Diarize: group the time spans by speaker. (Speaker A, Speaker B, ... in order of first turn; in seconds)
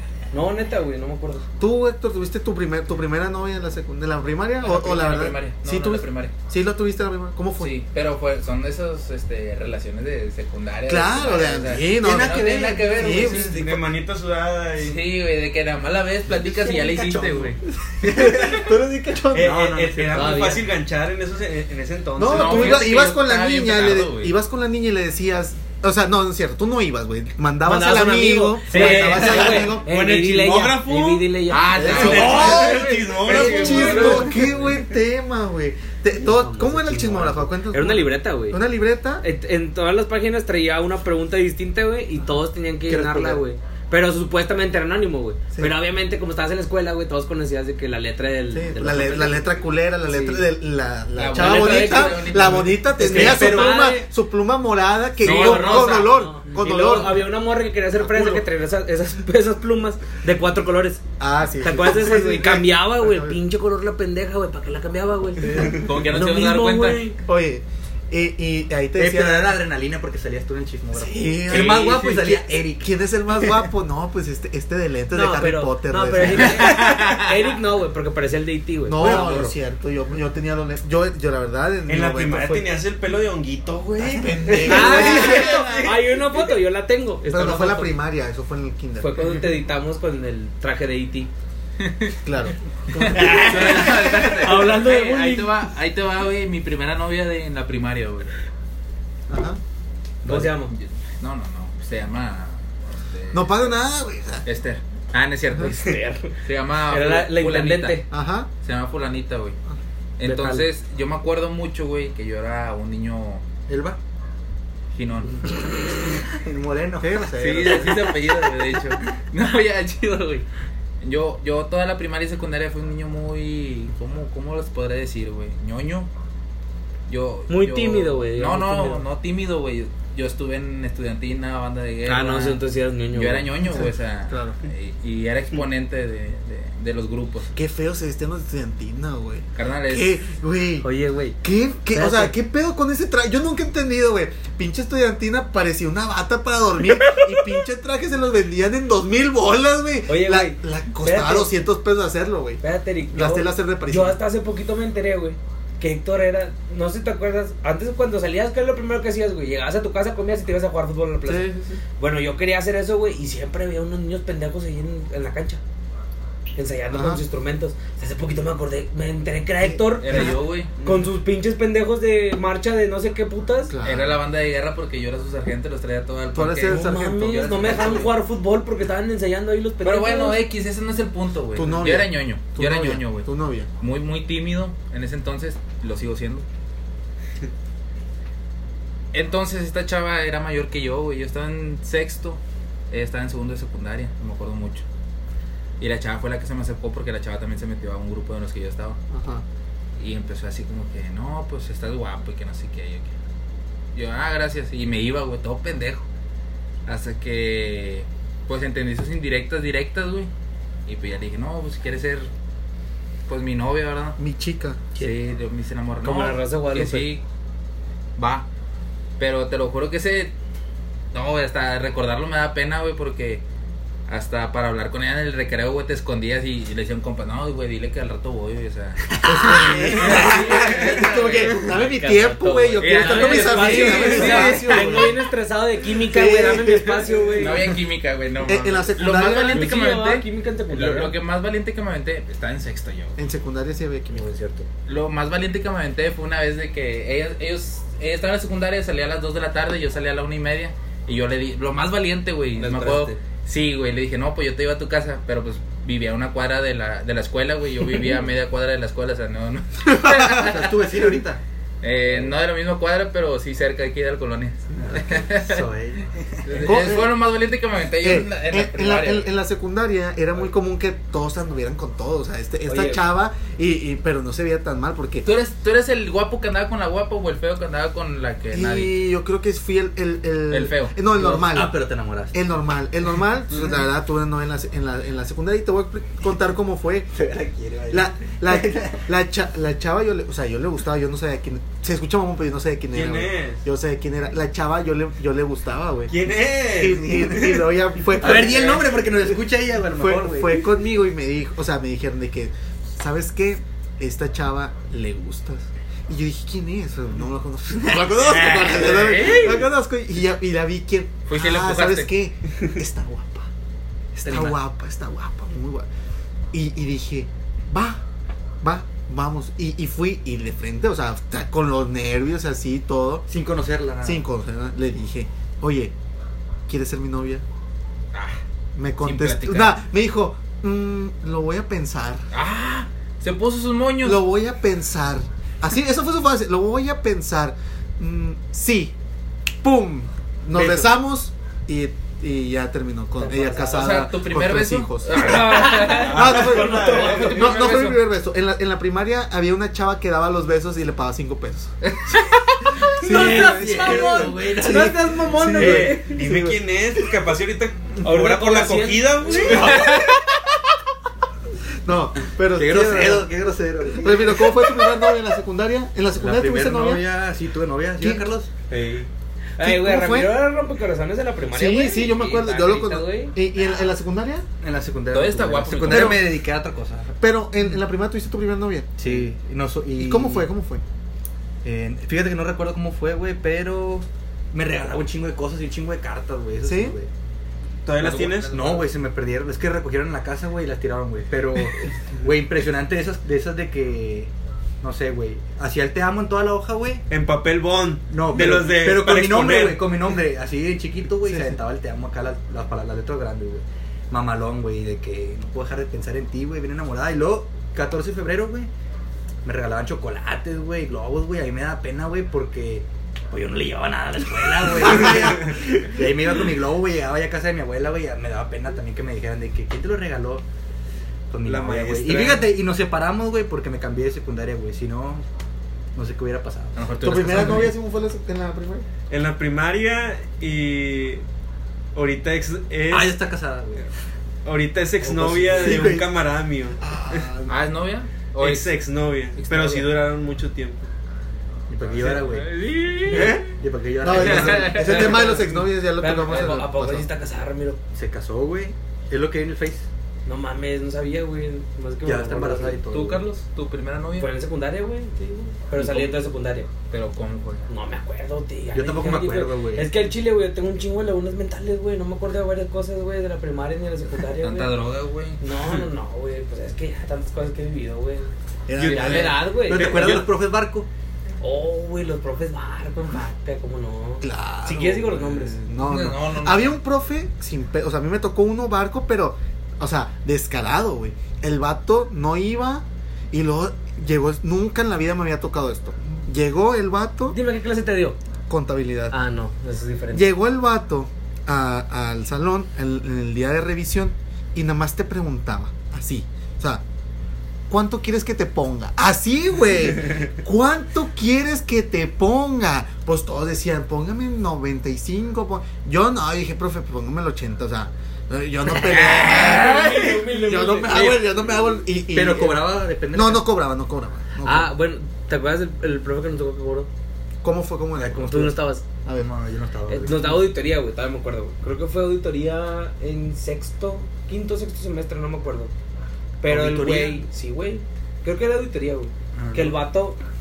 Speaker A: 0.3-1.4, 20.1-20.6, 27.6-34.4, 36.1-38.6, 39.2-49.5, 50.0-50.4, 51.4-52.1, 53.0-54.1, 55.2-61.0, 61.6-67.2, 75.1-79.5, 84.6-87.9, 89.0-91.3, 93.1-95.5, 100.2-100.7, 105.6-106.4, 106.9-108.0, 110.2-110.7, 127.5-129.0, 132.1-133.5, 140.8-141.4, 141.9-142.3, 150.1-151.5, 152.6-165.6, 166.6-173.7, 176.7-180.4, 215.0-215.4, 216.0-217.1, 230.1-237.6, 239.4-241.1, 244.1-244.7, 252.6-253.1, 272.7-273.0, 308.7-309.6, 343.2-343.9, 345.1-347.4, 353.0-356.2, 358.0-359.6, 369.6-373.3, 446.0-447.8, 450.2-452.8, 454.1-456.7, 457.7-464.7, 465.4-470.2, 471.4-475.6, 487.3-488.1, 489.1-490.3, 508.8-511.2, 514.4-516.9, 518.2-518.8, 519.9-525.7, 526.4-530.2
Speaker B: 1.6-7.7, 10.8-13.8, 18.1-19.6, 22.1-29.9, 31.7-39.2, 48.5-57.2, 57.9-58.4, 61.2-63.4, 67.2-69.5, 70.9-76.7, 78.8-82.7, 84.0-86.2, 87.3-89.2, 92.2-93.8, 99.3-99.6, 103.3-104.4, 108.1-108.5, 117.0-118.1, 133.6-134.6, 137.5-140.9, 141.4-154.2, 161.2-161.8, 166.9-167.2, 169.6-170.3, 173.7-174.2, 176.3-177.2, 181.5-183.7, 199.1-199.4, 214.2-214.8, 229.2-235.2, 236.0-237.5, 238.4-239.7, 243.2-244.3, 259.9-260.5, 266.6-267.1, 268.0-275.2, 278.5-281.8, 282.3-287.1, 287.9-296.1, 296.7-298.9, 299.9-313.5, 314.1-315.9, 316.5-318.0, 318.6-323.2, 324.0-325.9, 326.7-327.4, 328.7-332.2, 334.0-338.9, 339.6-345.4, 346.1-351.7, 353.0-356.5, 361.8-363.3, 363.9-367.0, 368.0-368.3, 369.6-370.4, 371.5-374.4, 375.8-376.2, 377.2-379.2, 380.0-380.8, 386.6-386.9, 401.2-401.6, 427.0-428.9, 435.5-436.1, 436.8-437.5, 443.1-443.4, 444.0-447.1, 468.7-470.2, 474.2-487.4, 488.5-489.1, 490.1-496.8, 497.7-514.7, 517.4-519.3
Speaker C: 4.6-6.3, 7.6-13.7, 14.8-17.6, 22.2-24.3, 28.7-29.7, 31.5-34.5, 51.1-52.9, 55.2-56.2, 65.7-67.0, 71.5-72.3, 76.4-77.3, 91.8-92.1, 93.0-98.3, 100.3-103.7, 104.4-105.8, 106.4-108.0, 108.6-109.6, 110.2-113.4, 114.9-115.4, 117.3-120.5, 121.0-126.1, 127.1-132.6, 133.1-137.5, 139.6-140.2, 170.0-170.7, 173.8-176.8, 177.6-178.1, 179.8-183.3, 183.8-186.4, 189.1-194.8, 195.8-199.0, 200.0-203.2, 203.9-206.0, 206.8-210.3, 210.9-212.3, 213.3-214.2, 214.9-217.2, 218.2-218.4, 219.2-220.3, 221.1-223.4, 224.1-231.6, 232.8-234.9, 237.4-243.2, 244.9-260.6, 261.8-265.7, 266.4-269.3, 275.2-278.9, 280.5-280.9, 308.1-309.5, 311.3-312.1, 314.3-314.5, 328.1-328.4, 329.0-329.7, 332.3-334.2, 343.6-348.0, 351.8-352.4, 359.5-360.1, 375.1-376.2, 388.0-388.8, 426.8-427.7, 437.5-438.8, 439.3-439.9, 442.0-443.4, 444.1-445.4, 452.9-454.3, 455.8-456.1, 456.9-457.6, 464.4-465.9, 468.8-469.4, 475.8-476.8, 508.8-510.0
Speaker D: 11.7-13.4, 16.3-18.7, 19.3-20.4, 28.7-29.6, 42.9-43.4, 53.0-53.9, 65.4-66.1, 69.0-72.9, 113.7-114.0, 116.3-117.2, 176.8-178.1, 229.1-230.3, 252.6-253.1, 260.4-261.4, 264.8-266.8, 281.2-282.4, 287.1-289.0, 298.2-300.6, 323.3-324.2, 340.5-340.9, 353.0-355.0, 359.4-360.0, 362.5-364.6, 366.1-369.1, 374.6-377.1, 379.0-380.5, 381.6-387.1, 388.0-394.3, 394.8-397.0, 398.1-408.7, 409.4-420.4, 421.3-425.2, 425.9-426.8, 432.9-433.9, 435.0-436.0, 441.7-445.4, 447.9-449.9, 452.0-453.2, 458.7-459.9, 469.1-470.9, 510.9-511.2, 512.1-513.5, 518.1-518.5, 519.1-520.5, 526.4-527.2, 529.3-529.8
Speaker E: 13.3-15.0, 19.3-22.9, 29.8-34.4, 81.9-85.7, 292.9-293.6, 296.1-297.6, 346.0-347.7, 355.6-359.9, 387.9-388.8, 397.1-399.9, 421.4-422.5, 429.1-431.2, 431.9-433.2, 434.4-437.3, 438.4-440.9